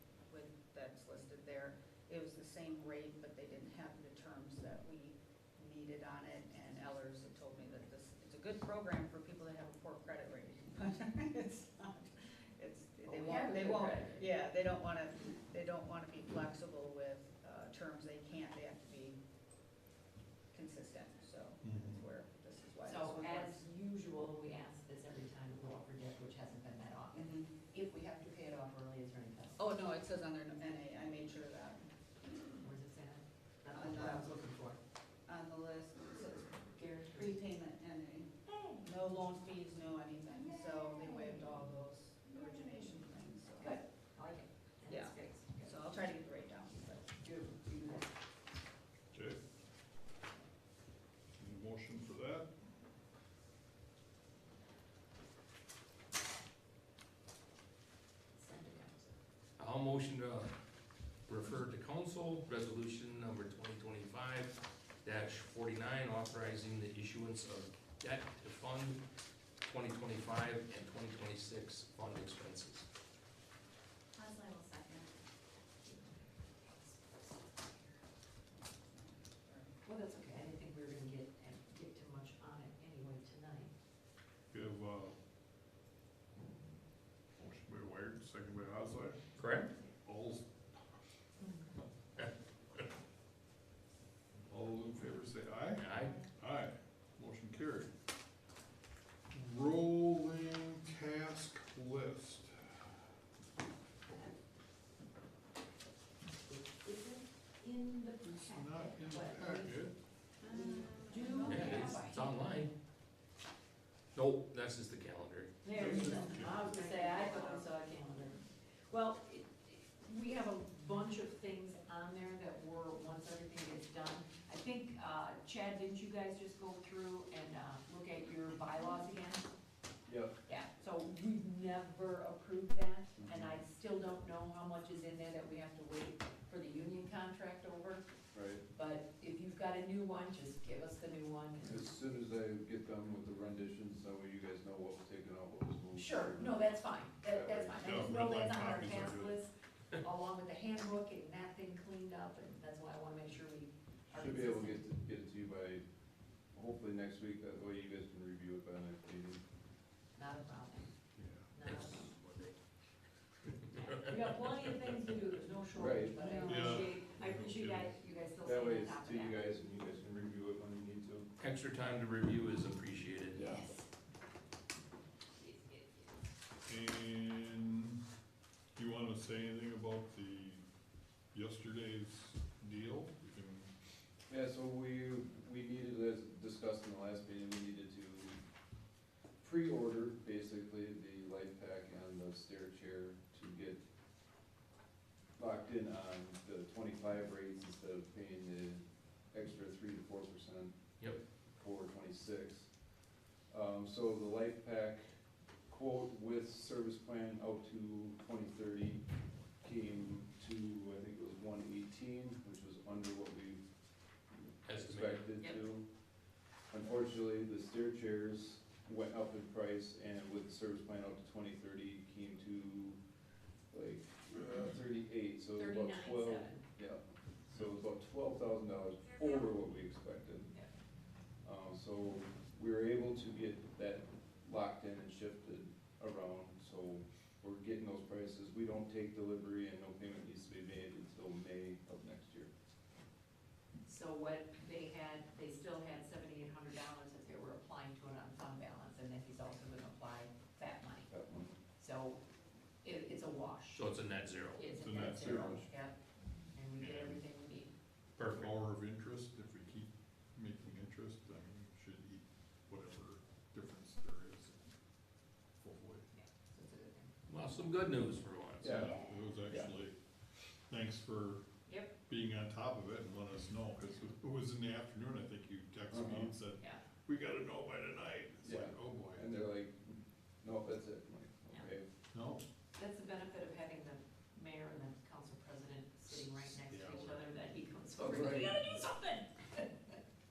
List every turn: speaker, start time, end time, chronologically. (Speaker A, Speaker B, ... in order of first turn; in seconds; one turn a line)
Speaker A: 0.3-19.2
Speaker B: 13.0-14.3
Speaker A: 20.5-23.6
Speaker C: 21.6-22.0
Speaker B: 22.9-29.6
Speaker A: 27.1-27.5
Speaker A: 29.6-31.9
Speaker B: 32.6-34.8
Speaker A: 33.7-34.3
Speaker A: 35.3-43.8
Speaker B: 36.6-37.4
Speaker D: 40.6-41.4
Speaker D: 42.3-42.9
Speaker B: 43.6-46.2
Speaker A: 44.9-47.1
Speaker B: 47.1-48.1
Speaker C: 49.1-49.4
Speaker C: 51.4-52.5
Speaker B: 58.4-59.2
Speaker E: 59.6-60.5
Speaker E: 61.3-69.0
Speaker E: 69.7-72.9
Speaker D: 74.2-75.1
Speaker D: 75.8-76.1
Speaker B: 75.9-76.2
Speaker A: 78.6-79.8
Speaker B: 79.8-83.7
Speaker C: 84.5-85.2
Speaker C: 87.4-89.2
Speaker E: 89.4-89.7
Speaker C: 90.0-91.0
Speaker C: 94.4-97.9
Speaker E: 95.8-96.2
Speaker C: 99.3-102.9
Speaker B: 106.5-109.9
Speaker C: 108.3-109.9
Speaker D: 110.4-111.4
Speaker B: 110.4-112.5
Speaker A: 111.1-111.9
Speaker E: 111.5-112.7
Speaker E: 114.2-115.6
Speaker B: 115.6-129.5
Speaker C: 115.7-116.8
Speaker A: 116.0-117.6
Speaker F: 130.1-130.3
Speaker B: 130.5-138.1
Speaker F: 133.2-133.5
Speaker F: 138.3-138.6
Speaker B: 138.7-141.9
Speaker F: 141.6-146.8
Speaker B: 145.9-154.9
Speaker F: 147.3-147.9
Speaker C: 147.7-149.4
Speaker F: 154.1-155.8
Speaker F: 156.5-159.4
Speaker B: 160.2-160.9
Speaker C: 161.2-161.5
Speaker B: 161.5-162.1
Speaker E: 161.7-162.5
Speaker B: 163.8-169.4
Speaker F: 165.7-166.5
Speaker C: 166.4-167.9
Speaker F: 168.4-171.3
Speaker E: 171.4-173.4
Speaker F: 173.3-173.7
Speaker B: 173.4-173.8
Speaker B: 175.4-176.1
Speaker C: 176.7-178.0
Speaker C: 178.8-180.6
Speaker C: 181.3-183.7
Speaker F: 184.3-188.4
Speaker F: 189.4-193.8
Speaker F: 195.4-200.8
Speaker F: 201.5-202.7
Speaker F: 203.5-205.0
Speaker F: 205.7-209.0
Speaker F: 209.6-213.6
Speaker F: 214.3-215.9
Speaker E: 214.7-215.3
Speaker F: 216.7-223.0
Speaker F: 223.7-230.5
Speaker B: 225.6-226.6
Speaker F: 231.4-242.5
Speaker B: 243.9-251.1
Speaker F: 251.1-251.6
Speaker B: 251.8-252.2
Speaker B: 252.8-253.9
Speaker E: 253.8-254.6
Speaker B: 254.5-256.0
Speaker C: 254.8-255.7
Speaker B: 256.5-257.7
Speaker C: 256.8-257.2
Speaker E: 258.2-258.5
Speaker C: 258.2-264.7
Speaker C: 265.6-266.0
Speaker B: 266.1-267.1
Speaker E: 267.3-268.9
Speaker F: 268.6-269.7
Speaker C: 268.6-271.4
Speaker B: 271.7-271.9
Speaker C: 272.1-279.3
Speaker F: 275.9-276.3
Speaker F: 278.4-281.9
Speaker C: 282.1-282.4
Speaker B: 282.8-290.0
Speaker C: 286.7-287.2
Speaker F: 288.0-288.6